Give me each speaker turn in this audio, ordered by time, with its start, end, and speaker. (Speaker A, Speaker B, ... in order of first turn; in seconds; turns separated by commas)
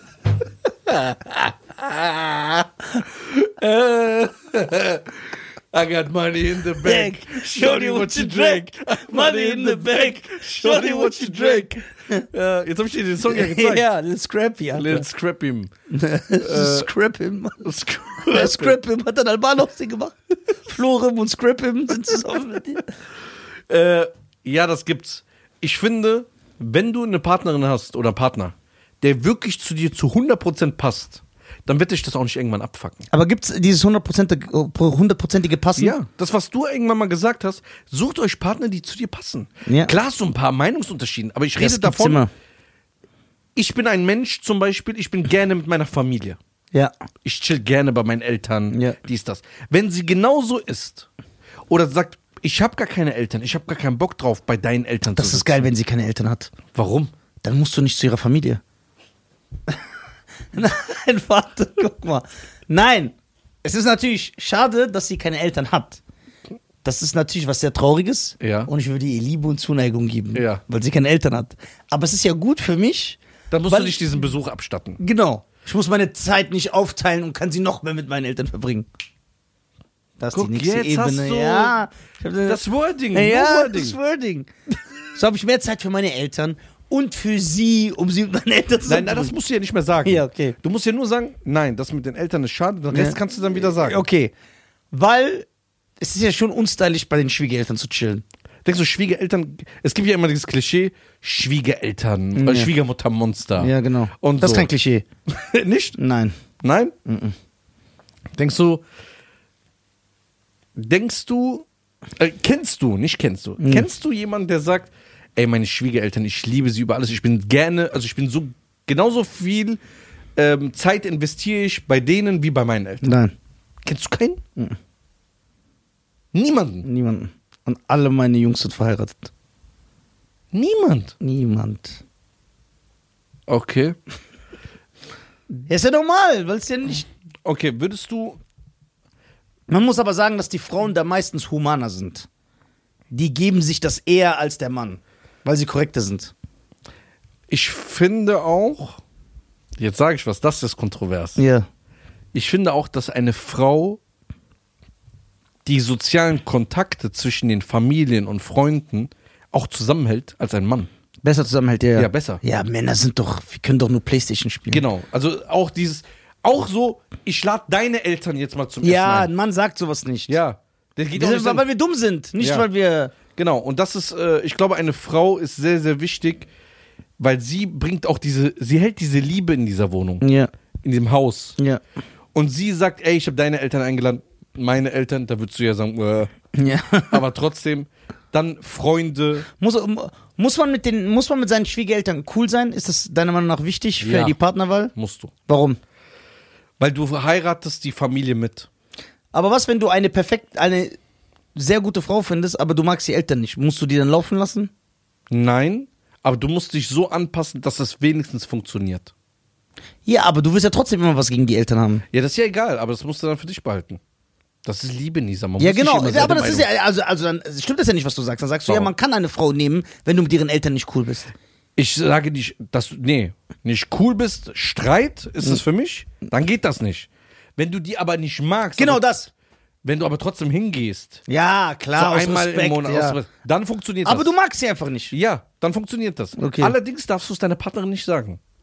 Speaker A: 0.9-13.9, Speaker B: 6.8-12.2, Speaker B: 13.3-15.0, Speaker A: 14.7-15.7, Speaker B: 15.9-17.6, Speaker A: 16.3-16.9, Speaker A: 17.6-18.8, Speaker B: 18.3-22.9, Speaker A: 23.7-33.1, Speaker B: 33.1-36.0, Speaker A: 35.8-42.2, Speaker B: 39.7-39.9, Speaker B: 41.6-42.3, Speaker A: 43.5-46.4, Speaker A: 47.2-51.1, Speaker B: 48.7-49.0, Speaker A: 51.7-55.7, Speaker B: 55.1-56.5, Speaker A: 56.7-57.1, Speaker B: 57.4-58.6, Speaker B: 60.5-66.0, Speaker B: 66.8-73.2, Speaker A: 68.4-68.7, Speaker A: 70.3-70.6, Speaker A: 73.5-75.0, Speaker B: 73.7-74.1, Speaker B: 75.0-78.9, Speaker B: 80.2-82.6, Speaker A: 80.3-81.8, Speaker A: 82.4-84.0, Speaker B: 83.1-84.5, Speaker B: 85.1-89.3, Speaker A: 88.9-94.0, Speaker B: 90.0-90.6, Speaker B: 92.9-94.3, Speaker B: 94.9-95.5, Speaker B: 96.0-98.2, Speaker A: 98.6-104.7, Speaker B: 102.3-102.7, Speaker B: 103.6-105.1, Speaker A: 105.3-106.0, Speaker B: 106.0-106.3, Speaker A: 106.6-106.9, Speaker B: 107.1-107.3, Speaker A: 108.4-108.8, Speaker A: 110.8-111.7, Speaker A: 112.2-119.8, Speaker B: 113.6-113.9, Speaker A: 120.4-123.2, Speaker B: 123.0-123.3, Speaker A: 123.8-124.4, Speaker A: 126.3-126.9, Speaker B: 126.8-129.3, Speaker A: 130.5-131.1, Speaker B: 131.2-132.0, Speaker A: 133.5-133.9, Speaker B: 135.7-137.1, Speaker A: 137.4-138.4, Speaker B: 139.7-142.3, Speaker B: 143.1-146.3, Speaker A: 147.5-149.0, Speaker A: 149.8-151.4, Speaker B: 151.4-151.7, Speaker A: 152.3-154.0, Speaker A: 155.6-160.9, Speaker B: 161.2-164.8, Speaker A: 161.9-162.4, Speaker A: 164.7-169.3, Speaker B: 168.8-170.4, Speaker A: 170.3-171.6, Speaker B: 171.1-173.1, Speaker A: 172.4-172.7, Speaker A: 173.3-176.5, Speaker A: 177.2-180.2, Speaker B: 180.2-180.5, Speaker A: 180.8-181.6, Speaker A: 182.3-186.3, Speaker B: 186.6-187.2, Speaker A: 187.1-189.5, Speaker B: 189.6-194.9, Speaker A: 194.0-194.4, Speaker A: 194.9-195.3, Speaker B: 195.5-195.8, Speaker A: 196.8-198.7, Speaker B: 199.3-201.0, Speaker B: 201.6-204.7, Speaker A: 205.3-209.1, Speaker B: 210.1-212.0, Speaker A: 212.1-214.0, Speaker A: 214.6-216.7, Speaker B: 215.6-221.3, Speaker A: 218.7-218.9, Speaker A: 221.8-229.0, Speaker B: 228.8-229.3, Speaker A: 229.8-231.2, Speaker B: 231.3-233.2, Speaker A: 232.0-234.3, Speaker B: 234.1-235.1, Speaker A: 235.1-238.4, Speaker B: 236.4-236.7